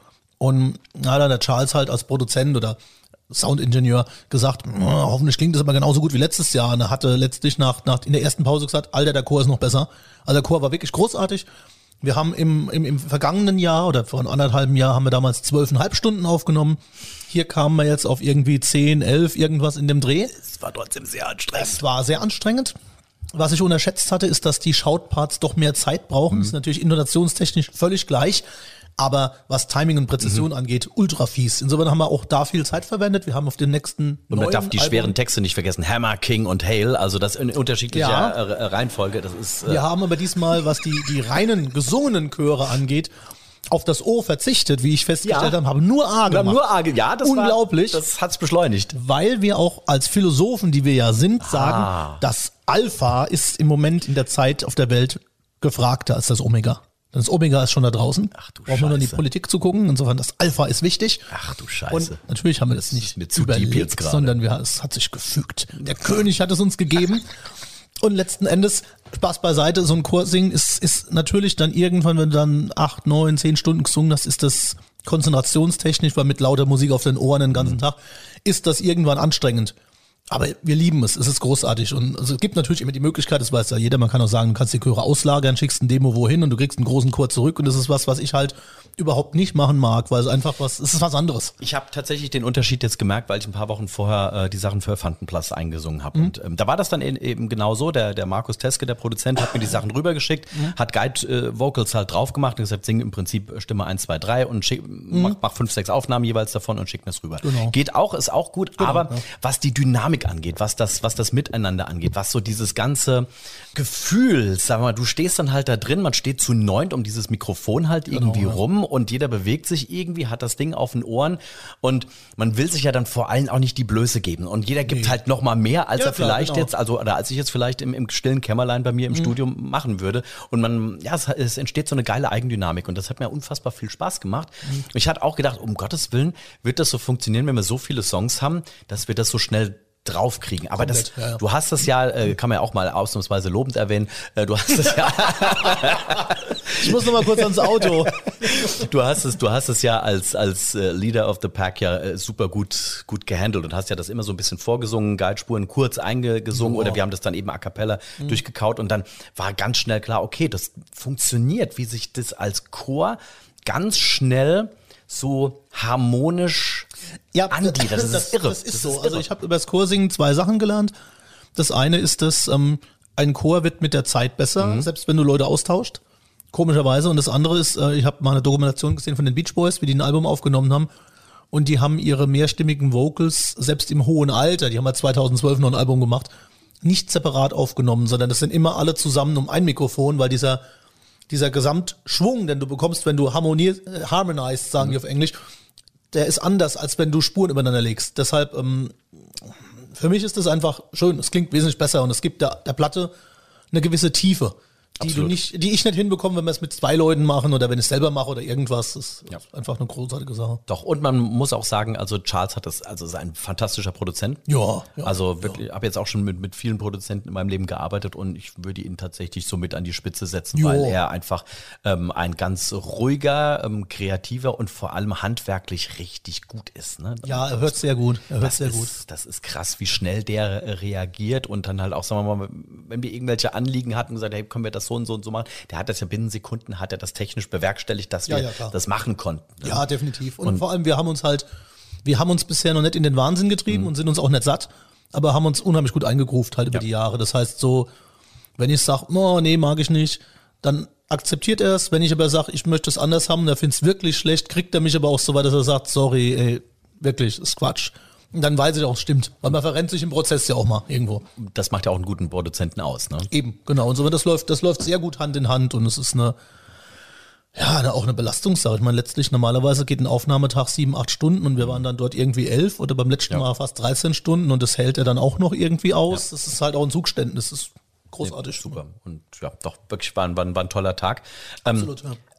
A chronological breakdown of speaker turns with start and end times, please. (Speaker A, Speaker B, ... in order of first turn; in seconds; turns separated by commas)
Speaker A: 0.4-2.8, Speaker A: 3.3-11.5, Speaker A: 12.0-20.3, Speaker B: 20.3-21.8, Speaker A: 21.5-22.8, Speaker A: 23.3-28.4, Speaker A: 29.0-35.1, Speaker B: 34.3-39.8, Speaker A: 37.9-38.4, Speaker A: 39.6-43.1, Speaker A: 43.7-46.6, Speaker B: 45.2-45.5, Speaker B: 46.3-48.9, Speaker A: 47.2-48.0, Speaker A: 48.9-61.3, Speaker B: 51.4-52.2, Speaker B: 58.3-59.2, Speaker B: 61.3-62.2, Speaker A: 61.9-67.2, Speaker B: 62.8-64.3, Speaker A: 68.0-79.7, Speaker A: 80.3-91.5, Speaker B: 91.6-166.9, Speaker A: 105.1-105.4, Speaker A: 107.4-107.7, Speaker A: 108.8-109.2, Speaker A: 118.1-118.6, Speaker A: 124.9-125.2, Speaker A: 125.9-126.7, Speaker A: 140.8-141.4, Speaker A: 145.8-146.1, Speaker A: 146.7-148.5, Speaker A: 156.5-157.0, Speaker A: 167.3-170.9, Speaker B: 167.5-169.3, Speaker A: 171.5-176.0, Speaker B: 174.6-174.9, Speaker A: 176.5-180.9, Speaker A: 181.5-186.3, Speaker A: 186.8-190.6, Speaker A: 191.3-195.4, Speaker A: 196.1-203.1, Speaker A: 203.7-210.6, Speaker B: 205.0-205.3, Speaker B: 210.7-214.4, Speaker A: 214.5-215.6, Speaker B: 215.0-227.8, Speaker A: 220.5-221.0, Speaker A: 227.2-228.9, Speaker B: 228.4-239.9, Speaker A: 238.3-238.7, Speaker A: 239.6-241.5, Speaker A: 242.0-247.9, Speaker A: 248.6-261.2, Speaker B: 261.4-263.3, Speaker A: 263.3-266.3, Speaker A: 267.5-278.8, Speaker B: 278.2-281.9, Speaker A: 281.6-282.2